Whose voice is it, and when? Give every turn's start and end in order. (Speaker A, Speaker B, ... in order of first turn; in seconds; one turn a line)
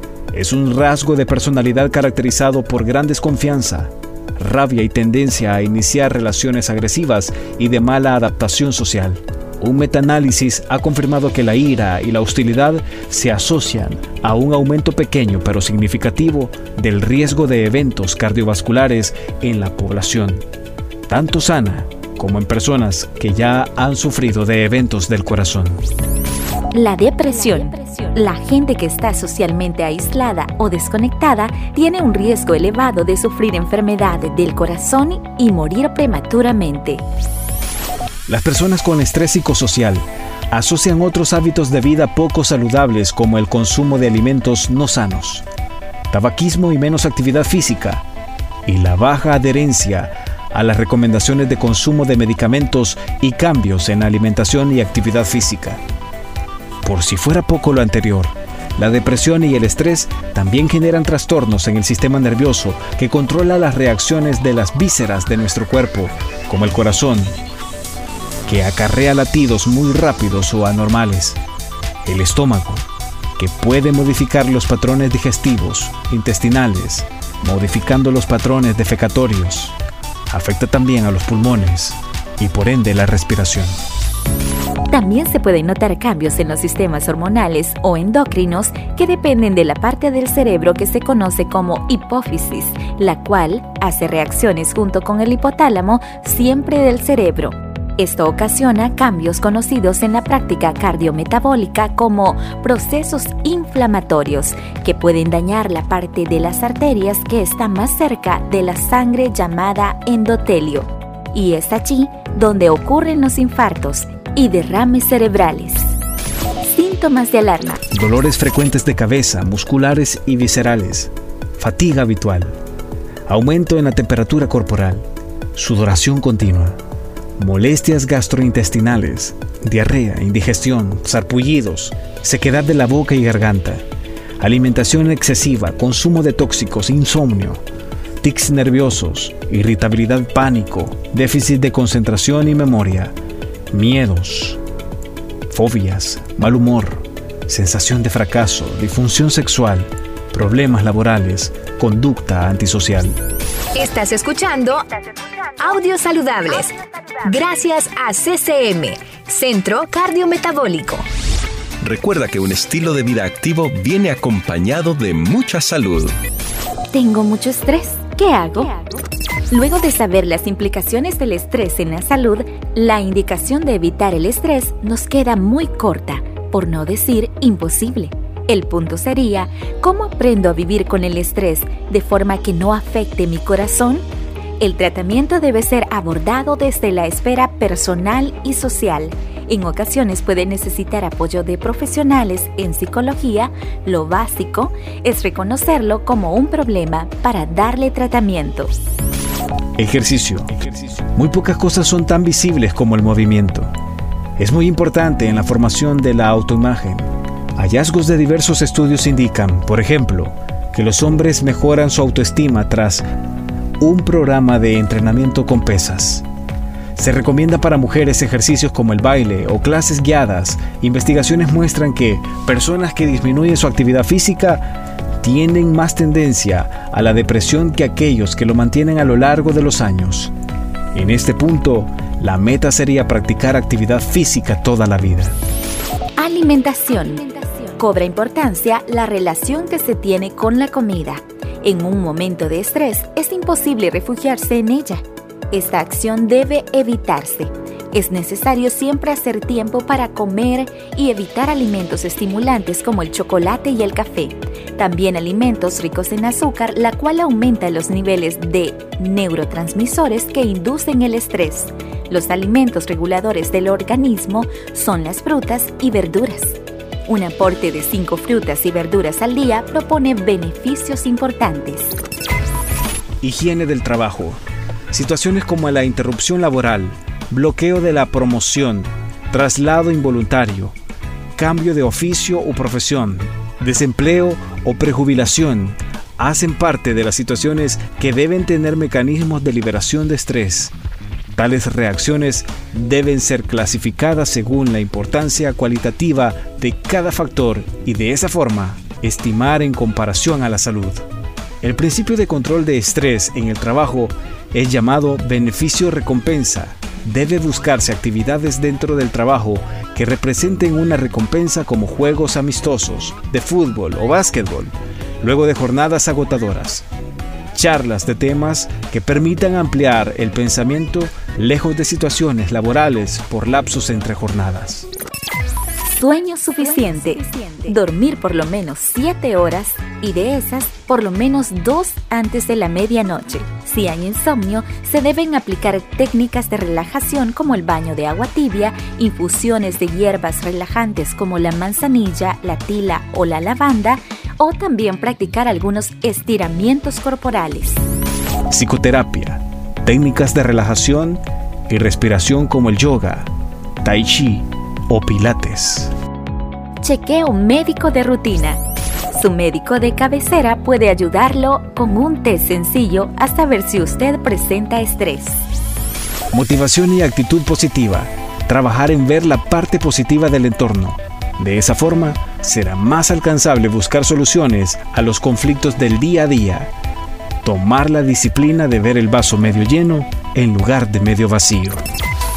Speaker A: 0.3-20.4
Speaker A: 21.1-25.8
Speaker B: 26.7-37.0
Speaker A: 38.3-45.5
Speaker A: 46.1-48.0
Speaker A: 48.7-55.8
Speaker A: 56.8-67.3
Speaker A: 68.5-71.4
Speaker A: 72.0-72.8
Speaker A: 73.4-79.8
Speaker A: 80.3-83.8
Speaker B: 84.9-115.9
Speaker B: 116.6-117.8
Speaker A: 117.9-122.6
Speaker A: 123.3-126.8
Speaker A: 127.4-133.8
Speaker A: 134.4-137.6
Speaker A: 138.2-143.2
Speaker A: 143.7-144.6
Speaker A: 145.5-153.2
Speaker C: 153.8-161.1
Speaker D: 161.8-166.1
Speaker B: 166.9-184.0
Speaker B: 184.6-198.7
Speaker A: 199.8-203.7
Speaker A: 204.4-213.1
Speaker A: 213.8-216.3
Speaker A: 217.0-230.3
Speaker A: 230.9-235.3
Speaker B: 236.2-272.0
Speaker A: 273.2-274.4
Speaker A: 274.9-280.8
Speaker A: 281.4-290.7
Speaker A: 291.4-301.1
Speaker A: 301.6-316.9
Speaker A: 317.5-324.9
Speaker B: 325.9-347.8
Speaker A: 348.5-353.3
Speaker A: 353.8-355.9
Speaker B: 356.8-358.6
Speaker B: 359.1-365.4
Speaker A: 366.3-376.7
Speaker A: 377.4-381.8